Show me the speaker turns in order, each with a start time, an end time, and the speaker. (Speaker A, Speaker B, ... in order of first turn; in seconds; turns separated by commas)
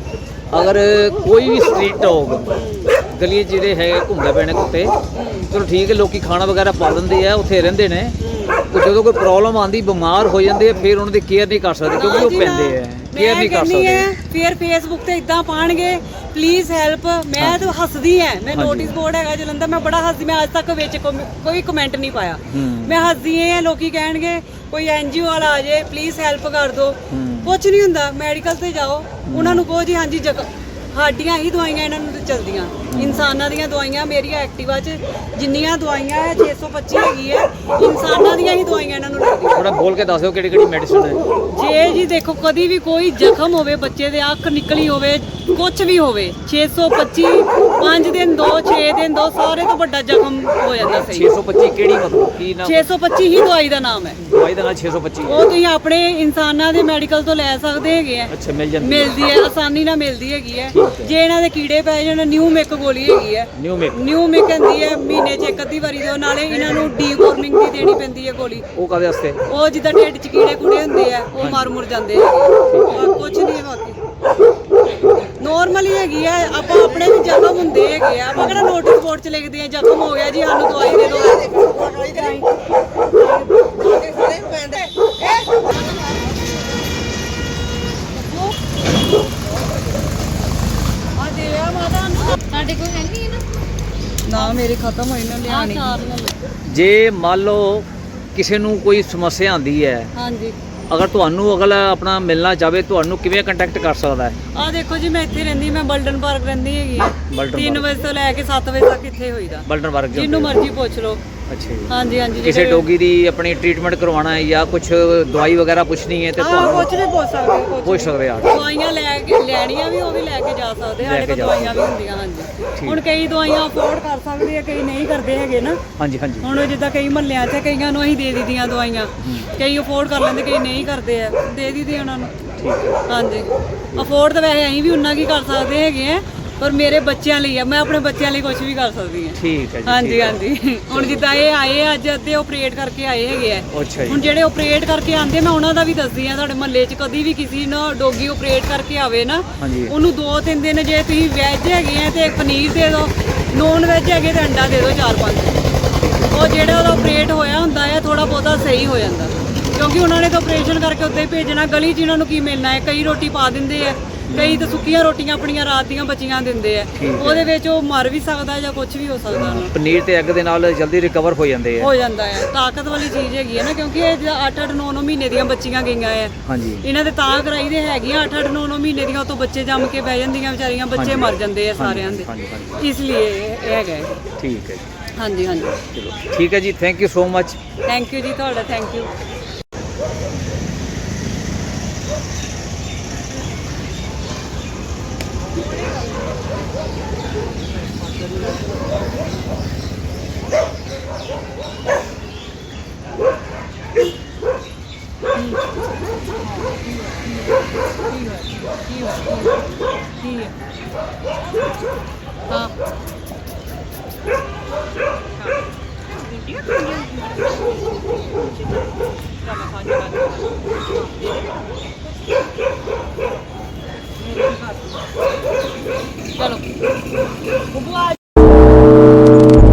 Speaker A: 0.5-2.5, Speaker B: 2.5-2.9, Speaker A: 3.0-4.9, Speaker B: 5.1-5.5, Speaker A: 5.5-8.2, Speaker B: 8.2-8.6, Speaker A: 8.7-14.1, Speaker B: 11.9-39.7, Speaker A: 17.4-17.7, Speaker A: 18.5-18.9, Speaker A: 22.5-23.1, Speaker A: 27.1-27.6, Speaker A: 29.2-29.7, Speaker A: 32.9-33.3, Speaker A: 39.5-41.2, Speaker B: 41.5-51.3, Speaker A: 50.8-52.9, Speaker B: 52.6-54.2, Speaker A: 54.2-55.5, Speaker B: 55.2-68.7, Speaker A: 58.3-59.3, Speaker A: 60.7-61.1, Speaker A: 63.5-64.0, Speaker A: 66.5-66.9, Speaker A: 68.7-69.4, Speaker B: 69.5-74.0, Speaker A: 71.4-71.7, Speaker A: 72.7-73.1, Speaker B: 75.4-82.5, Speaker A: 78.3-78.7, Speaker B: 83.2-84.9, Speaker B: 88.1-88.5, Speaker B: 91.1-92.4, Speaker C: 92.4-93.5, Speaker B: 94.2-96.0, Speaker C: 94.3-94.7, Speaker C: 95.5-96.4, Speaker A: 96.6-100.1, Speaker B: 100.1-100.5, Speaker A: 100.9-104.4, Speaker B: 104.5-111.2, Speaker A: 107.3-108.0, Speaker A: 109.7-110.6, Speaker A: 111.5-116.9, Speaker B: 111.9-112.9, Speaker B: 116.4-125.8, Speaker A: 117.8-118.7, Speaker A: 121.0-121.9, Speaker A: 126.0-126.5, Speaker B: 126.4-132.3, Speaker A: 129.2-129.5, Speaker A: 132.5-133.0, Speaker B: 133.1-155.6, Speaker A: 139.3-140.4, Speaker A: 140.9-141.4, Speaker A: 143.7-144.2, Speaker A: 149.6-149.9, Speaker A: 156.0-156.6, Speaker B: 156.3-169.7, Speaker A: 164.3-164.8, Speaker A: 167.0-167.5, Speaker A: 169.3-171.9, Speaker B: 171.8-184.1, Speaker A: 176.4-176.8, Speaker A: 180.9-182.8, Speaker A: 184.4-184.9, Speaker B: 185.2-185.8, Speaker A: 185.9-187.6, Speaker B: 187.8-189.1, Speaker B: 206.4-207.3, Speaker B: 208.1-209.6, Speaker B: 210.2-210.5, Speaker B: 216.2-217.6, Speaker B: 219.4-221.5, Speaker B: 224.2-225.0, Speaker C: 226.3-226.6, Speaker B: 227.7-228.1